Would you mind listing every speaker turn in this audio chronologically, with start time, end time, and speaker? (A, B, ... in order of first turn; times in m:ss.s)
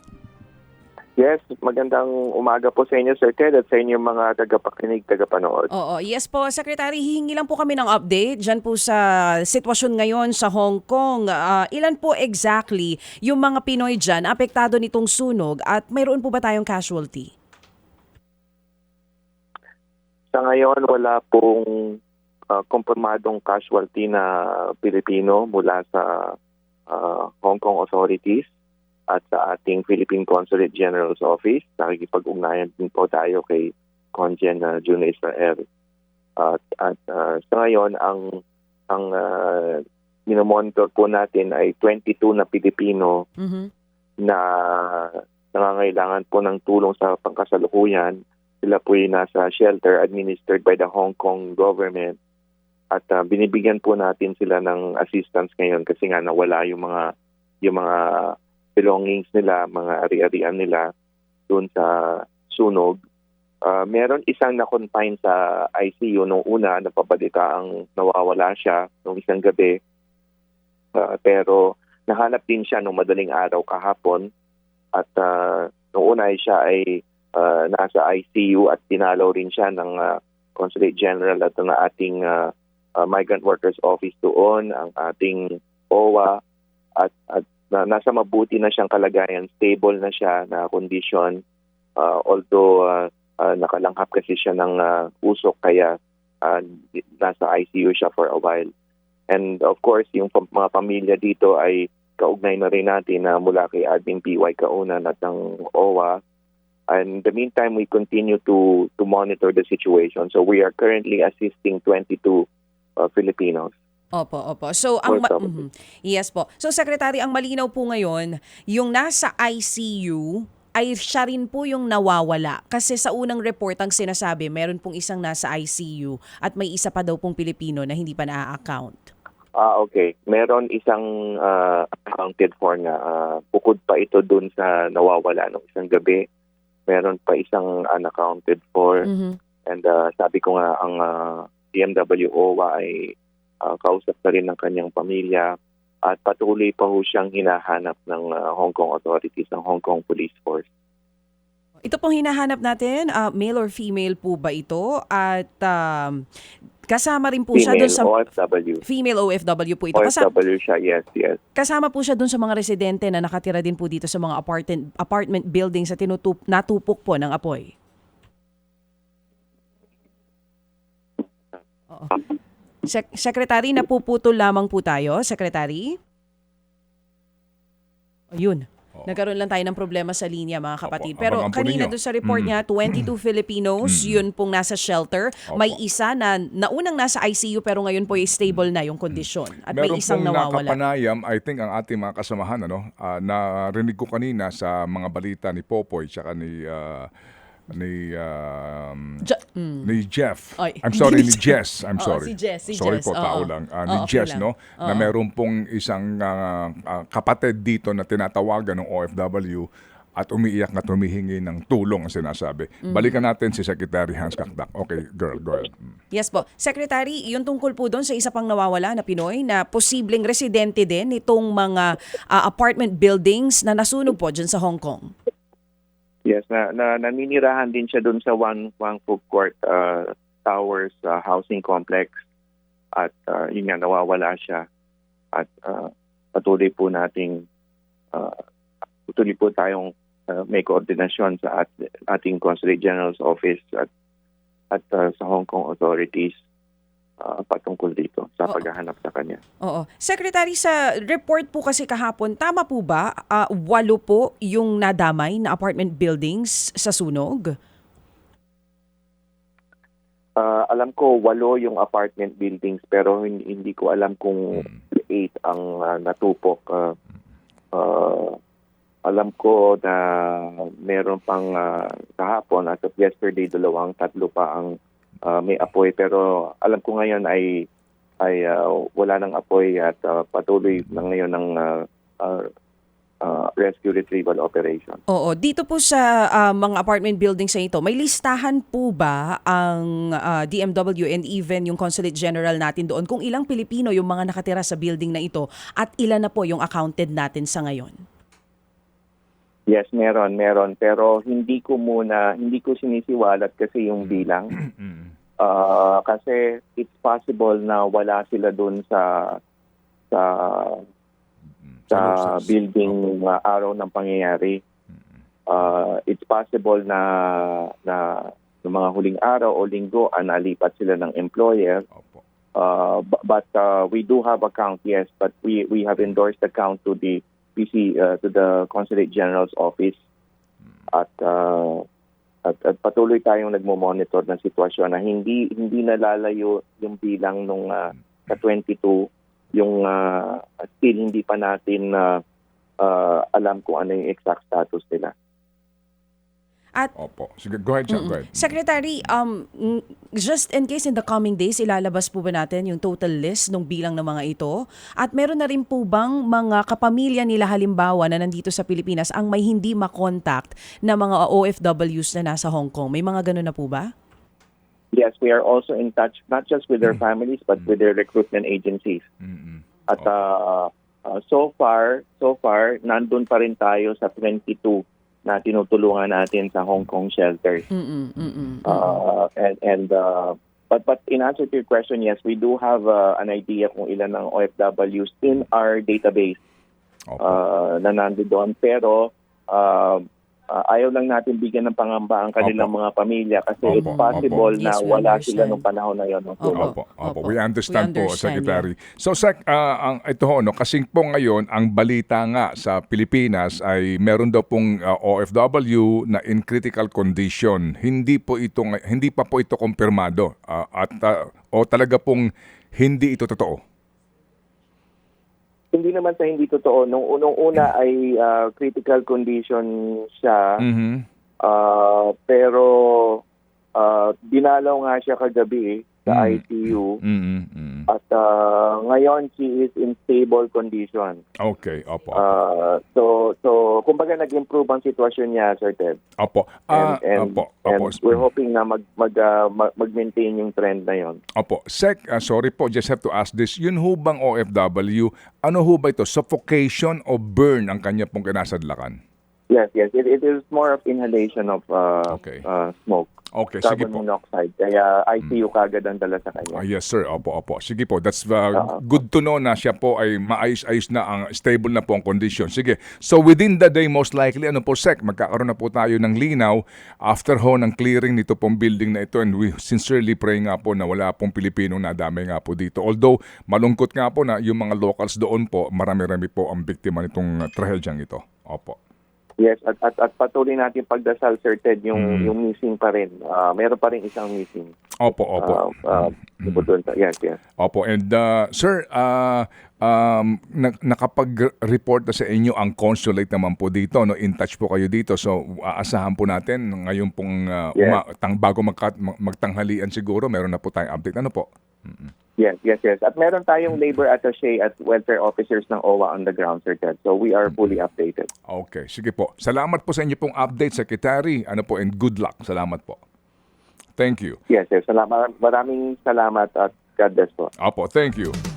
0:01.2-0:05.7 A
0:05.7-0:17.3 B
0:20.3-0:22.0 A
0:22.5-0:26.4 A
0:26.9-0:28.5 A
0:29.1-0:35.6 A
0:36.4-0:38.4 A
0:38.9-0:43.2 A
0:43.4-0:43.7 B
0:44.2-0:52.2 A
0:52.9-0:57.1 A
0:57.6-1:00.9 A
1:01.5-1:03.0 A
1:03.6-1:09.8 A
1:11.0-1:14.3 A
1:15.0-1:26.4 A
1:27.0-1:31.4 A
1:32.0-1:38.7 A
1:39.3-1:46.2 A
1:46.9-1:52.4 A
1:53.0-1:53.7 A
1:54.2-2:09.1 B
1:55.1-1:55.6 A
2:09.6-2:16.2 A
2:16.9-2:19.1 A
2:19.0-2:19.4 B
2:19.7-2:25.5 A
2:26.1-2:30.7 A
2:31.8-2:36.2 B
2:36.9-2:38.1 B
2:37.5-2:38.8 A
2:38.8-2:40.3 B
2:40.0-2:41.4 A
2:41.6-2:47.7 B
2:51.9-2:52.2 B
2:52.8-2:56.0 B
2:58.3-3:10.8 B
3:00.8-3:03.0 C
3:03.8-3:04.2 C
3:05.5-3:05.8 C
3:09.2-3:17.1 C
3:17.7-3:19.2 C
3:19.2-3:19.9 B
3:19.8-3:35.9 C
3:20.6-3:25.1 B
3:32.9-3:33.1 B
3:36.1-3:45.1 B
3:46.3-3:52.1 A
3:53.0-3:54.6 A
3:55.3-3:57.5 A
3:58.1-3:58.4 A
3:59.1-4:03.9 A
4:04.7-4:06.4 A
4:07.2-4:09.4 A
4:09.6-4:17.5 B
4:20.4-4:27.0 A
4:27.7-4:28.4 A
4:29.0-4:37.6 A
4:38.2-4:42.5 A
4:43.2-4:45.0 A
4:45.1-4:58.0 B
4:59.7-5:04.5 A
5:04.0-5:05.1 C
5:05.4-5:09.4 A
5:10.1-5:10.8 A
5:11.6-5:13.0 C
5:11.9-5:14.6 A
5:15.5-5:21.9 A
5:21.9-5:22.2 C
5:22.6-5:30.0 A
5:30.9-5:31.9 A
5:32.4-5:42.2 A
5:42.8-5:45.1 A
5:47.0-5:48.5 C
5:47.9-6:03.9 B
6:04.9-6:09.0 A
6:09.2-6:10.1 C
6:09.9-6:17.7 A
6:17.7-6:19.0 B
6:18.6-6:26.4 A
6:27.1-6:27.4 C
6:27.2-6:36.7 A
6:32.4-6:32.7 C
6:33.6-6:34.4 C
6:33.7-6:35.6 B
6:36.4-6:38.7 B
6:36.5-6:52.3 C
6:52.8-6:53.6 C
6:55.7-7:00.6 A
7:00.6-7:01.0 C
7:01.4-7:03.2 A
7:03.8-7:07.0 A
7:06.1-7:06.4 C
7:07.0-7:07.9 C
7:07.9-7:11.2 A
7:11.4-7:12.4 C
7:12.1-7:16.0 A
7:16.2-7:18.2 C
7:16.7-7:21.2 A
7:21.4-7:29.0 C
7:29.5-7:36.6 A
7:32.1-7:32.4 C
7:33.4-7:34.0 C
7:36.5-7:58.8 C
7:38.5-7:38.9 A
7:59.4-8:04.7 A
8:02.0-8:02.3 C
8:05.0-8:06.6 C
8:05.4-8:07.4 A
8:07.6-8:22.1 C
8:17.8-8:18.0 A
8:22.4-8:28.3 A
8:28.5-8:33.0 C
8:34.0-8:34.4 C
8:34.5-8:37.5 A
8:37.6-8:38.4 C